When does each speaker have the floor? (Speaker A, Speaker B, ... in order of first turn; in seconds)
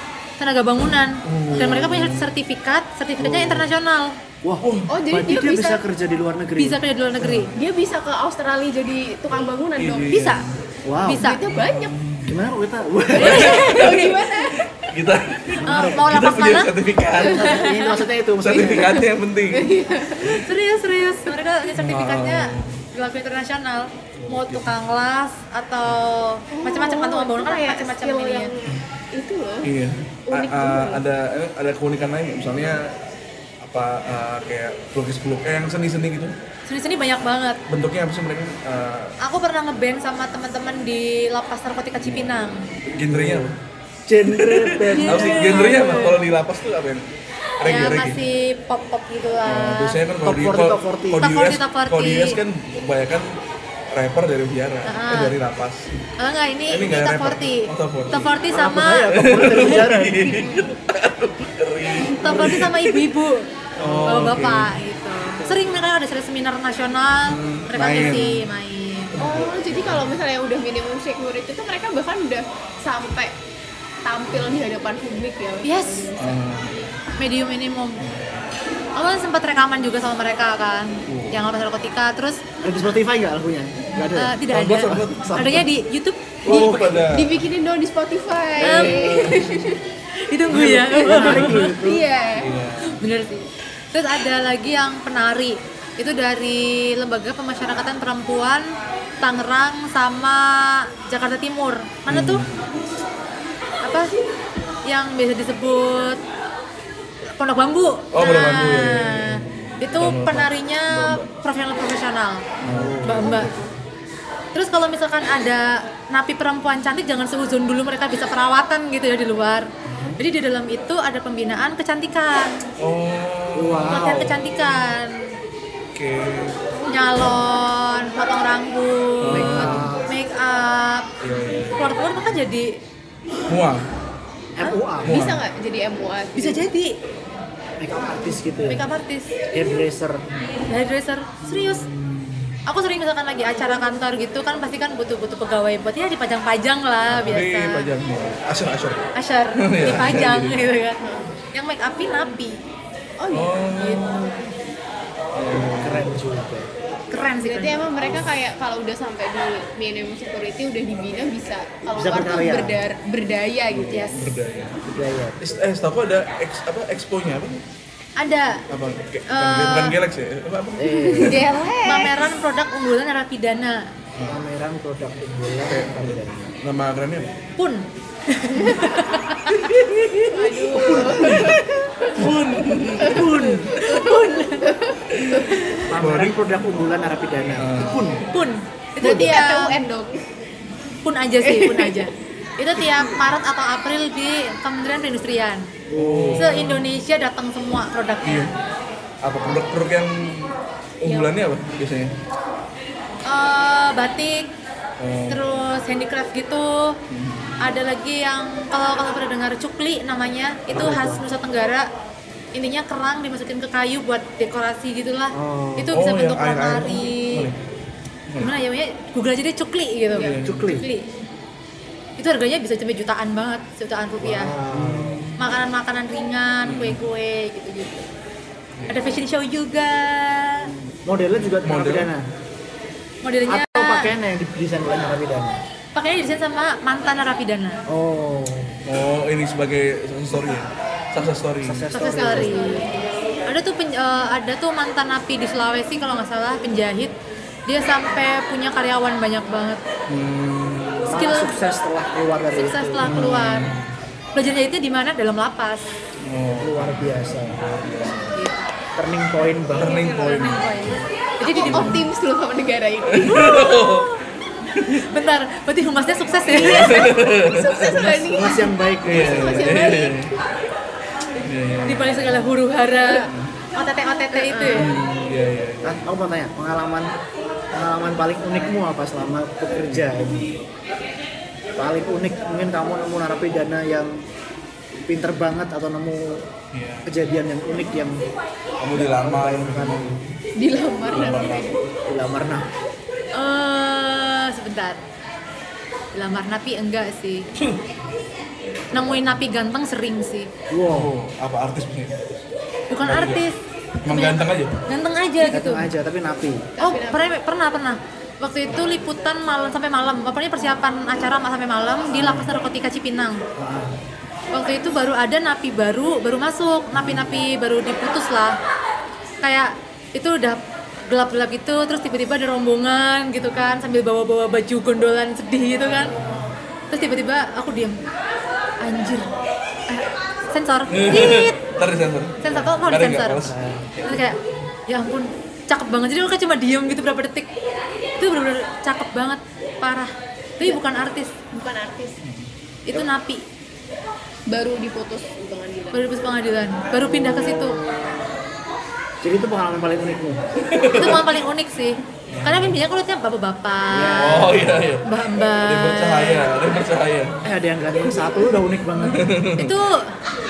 Speaker A: 0.4-4.1, 6.5-7.5, 10.1-10.5, 11.0-11.4, 13.2-14.3, 15.6-16.7, 17.2-17.9, 20.2-28.5, 36.6-37.6, 39.2-42.6, 44.9-46.1, 47.6-50.0, 51.2-52.4, 54.9-55.4, 56.2-59.8, 62.2-63.5, 64.0-69.2, 75.6-76.1, 77.2-78.0, 78.9-82.4, 84.1-86.5, 88.6-89.0, 90.2-91.7, 92.8-98.7, 99.2-102.4, 103.8-104.2, 104.8-106.2, 107.4-112.4, 113.0-113.5, 114.5-122.6, 123.9-125.3, 126.8-131.1, 131.7-132.8, 136.3-137.0, 138.7-139.3, 140.7-141.8, 142.7-147.9, 149.1-151.0, 151.5-152.6, 153.8-154.3, 157.1-157.8, 163.9-164.3, 168.2-168.6, 169.3-170.0, 171.8-173.8, 177.6-179.7, 183.2-184.8, 185.3-185.8, 188.3-189.8, 191.0-195.7, 196.3-198.5, 203.2-204.5, 205.3-207.0, 207.6-211.9, 212.5-217.5, 218.4-221.1, 222.2-224.5, 225.4-228.1, 228.9-230.7, 233.2-234.2, 235.9-237.8, 241.9-249.8, 251.1-251.6, 252.5-253.7, 254.3-255.9, 258.3-258.7, 259.9-262.0, 263.3-264.2, 264.9-267.1, 271.8-274.9, 293.4-295.0, 296.1-297.5, 298.9-300.5, 302.9-303.5, 304.1-305.9, 306.8-313.4, 314.5-318.6, 319.4-326.1, 326.9-328.0, 328.8-329.3, 329.9-331.7, 332.4-337.5, 338.2-341.3, 342.9-343.4, 345.9-347.8, 350.9-356.6, 359.1-360.0
Speaker B: 1.3-2.3, 4.6-4.9, 9.8-10.6, 11.5-12.4, 13.2-17.4, 18.4-19.7, 21.7-22.8, 24.1-24.7, 29.6-33.0, 33.6-36.3, 37.7-39.1, 42.0-43.5, 44.3-47.0, 47.6-48.2, 49.5-53.4, 53.9-56.0, 56.7-58.3, 59.1-63.1, 63.8-64.8, 67.2-68.5, 69.1-70.2, 76.2-77.0, 78.0-78.5, 81.1-81.4, 84.5-85.5, 86.4-87.3, 88.9-89.8, 90.6-91.7, 92.3-93.0, 102.1-102.5, 108.1-111.3, 112.6-113.0, 122.8-124.9, 125.9-126.6, 129.2-129.9, 131.2-132.3, 133.5-133.8, 135.1-135.4, 147.1-150.7, 153.3-154.3, 155.3-156.2, 163.7-164.9, 165.4-167.6, 168.7-171.4, 175.7-177.4, 179.8-180.2, 182.2-183.6, 185.1-186.4, 187.6-188.1, 195.9-196.9, 198.2-198.5, 199.2-202.1, 205.0-205.6, 207.1-207.6, 210.7-210.9, 215.9-217.6, 218.3-218.5, 220.2-220.8, 224.7-225.5, 226.6-227.0, 228.8-229.1, 230.7-232.1, 238.8-241.9, 250.1-251.2, 253.0-253.8, 256.2-258.4, 259.7-262.0, 263.1-264.1, 264.7-265.1, 266.7-268.1, 269.0-270.3, 271.4-272.4, 273.3-273.6, 274.7-276.0, 286.7-287.1, 288.8-290.3, 291.1-291.8, 298.9-299.4, 300.9-302.2, 303.0-303.4, 304.1-304.8, 330.9-334.3, 342.2-342.5, 350.7-351.3, 352.3-352.7, 354.2-357.3, 359.1-359.8
Speaker C: 3.2-3.7, 4.4-7.5, 10.8-11.2, 12.3-13.5, 15.6-16.1, 17.2-18.9, 43.1-43.5, 44.1-46.1, 50.2-51.4, 58.5-60.4, 63.8-64.1, 82.6-85.7, 86.5-87.1, 88.6-89.3, 90.5-92.0, 112.6-113.7, 119.9-120.2, 123.5-124.4, 129.3-130.1, 134.6-135.2, 137.8-138.9, 139.5-140.2, 141.4-142.5, 155.7-156.7, 161.9-162.8, 164.9-165.5, 170.8-171.4, 174.3-176.5, 180.7-181.6, 183.1-183.7, 185.9-188.2, 189.0-189.3, 195.9-196.7, 210.7-211.3, 215.3-215.9, 220.4-220.8, 224.2-225.3, 231.1-232.2, 233.5-235.6, 237.9-238.7, 241.6-242.6, 251.1-253.8, 256.6-257.7, 258.9-260.1, 267.9-269.7, 275.8-277.1, 277.7-280.6, 281.8-284.1, 285.1-286.4, 287.1-288.2, 288.9-290.2, 292.1-292.7, 300.7-301.1, 305.5-306.7, 312.1-312.5, 313.6-313.9, 316.9-317.4, 326.1-326.5, 332.4-332.9, 333.4-334.0, 347.0-348.2, 349.2-350.4, 352.4-352.8, 353.9-354.9, 357.4-359.3
Speaker D: 4.9-5.8, 7.5-10.2, 11.1-11.9, 13.1-14.6, 17.2-17.9, 18.5-20.5, 26.5-29.7, 30.3-31.0, 60.3-60.7, 69.2-73.3, 74.0-76.4, 86.5-89.8, 91.1-92.5, 135.1-136.7, 151.0-151.3, 153.2-154.0, 157.4-164.2, 171.2-172.2, 180.3-182.2, 183.0-185.6, 189.0-190.2, 191.4-192.1, 192.8-193.1, 201.1-201.4, 220.1-220.4, 241.9-243.1, 261.4-263.5, 266.4-270.3, 273.0-273.3, 274.1-275.0, 290.6-291.8, 306.7-307.3, 341.5-342.2, 344.5-346.0